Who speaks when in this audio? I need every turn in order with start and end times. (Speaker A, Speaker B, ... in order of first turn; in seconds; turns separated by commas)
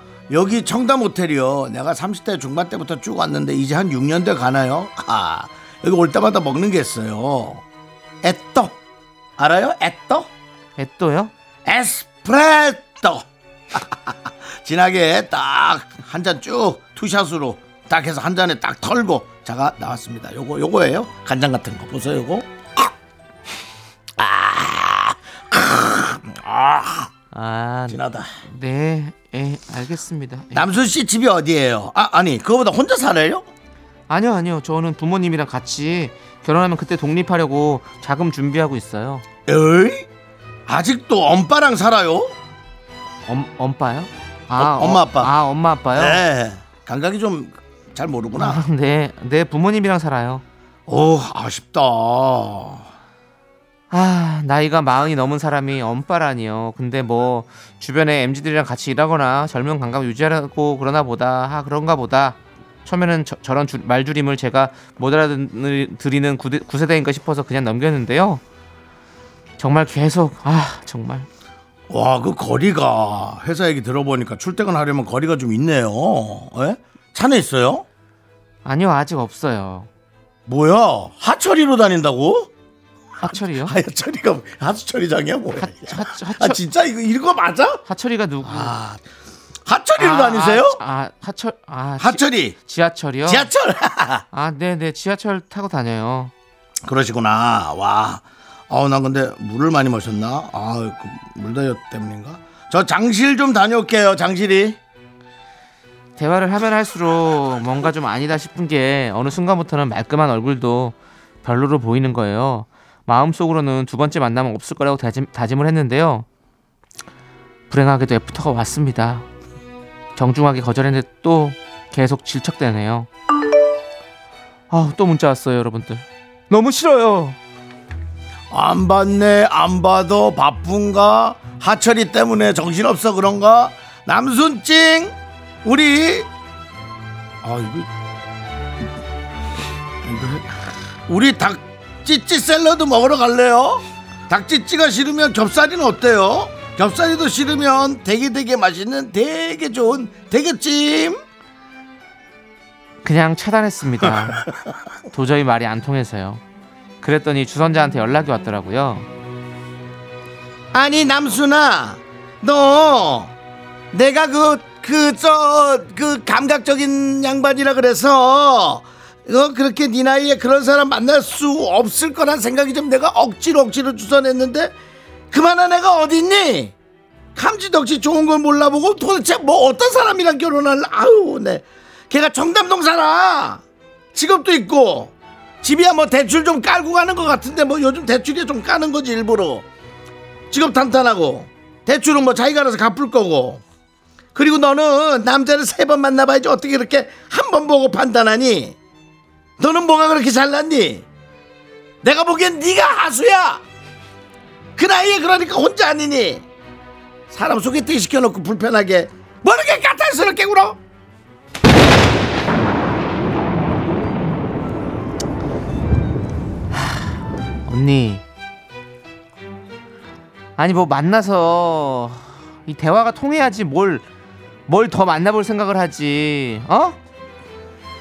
Speaker A: 0.3-7.6, Speaker A: 8.2-8.8, Speaker A: 9.4-10.3, Speaker B: 10.8-11.3, Speaker A: 11.7-22.8, Speaker A: 24.2-27.1, Speaker B: 27.3-30.7, Speaker A: 27.9-28.3, Speaker A: 30.5-33.5, Speaker B: 34.1-39.2, Speaker A: 39.5-40.1, Speaker A: 40.7-42.3, Speaker B: 43.3-46.2, Speaker A: 44.6-45.3, Speaker A: 45.9-48.6, Speaker B: 48.4-50.4, Speaker A: 50.9-52.9, Speaker B: 53.9-68.4, Speaker B: 69.6-71.3, Speaker A: 71.9-77.8, Speaker B: 78.6-79.9, Speaker A: 80.5-82.5, Speaker B: 83.2-83.8, Speaker A: 83.2-87.8, Speaker B: 85.5-86.6, Speaker B: 87.9-88.7, Speaker A: 88.4-89.0, Speaker A: 89.7-90.8, Speaker B: 90.0-93.5, Speaker A: 92.0-92.5, Speaker A: 93.2-94.2, Speaker B: 94.3-96.3, Speaker A: 96.8-104.8, Speaker B: 106.2-116.2, Speaker B: 117.7-119.2, Speaker B: 120.2-123.1, Speaker B: 124.7-127.4, Speaker A: 128.5-136.3, Speaker A: 137.4-137.9, Speaker A: 140.0-140.5, Speaker A: 141.1-151.2, Speaker B: 153.0-154.5, Speaker B: 155.1-156.4, Speaker B: 157.0-159.1, Speaker A: 160.7-163.3, Speaker A: 163.9-174.7, Speaker A: 175.3-176.7, Speaker A: 177.3-183.6, Speaker A: 184.1-189.7, Speaker A: 190.5-193.6, Speaker A: 194.3-198.8, Speaker A: 199.6-201.1, Speaker A: 202.0-203.6, Speaker A: 204.8-206.4, Speaker A: 207.3-210.8, Speaker B: 216.7-217.0, Speaker B: 217.7-218.2, Speaker B: 220.6-224.0, Speaker B: 224.7-227.0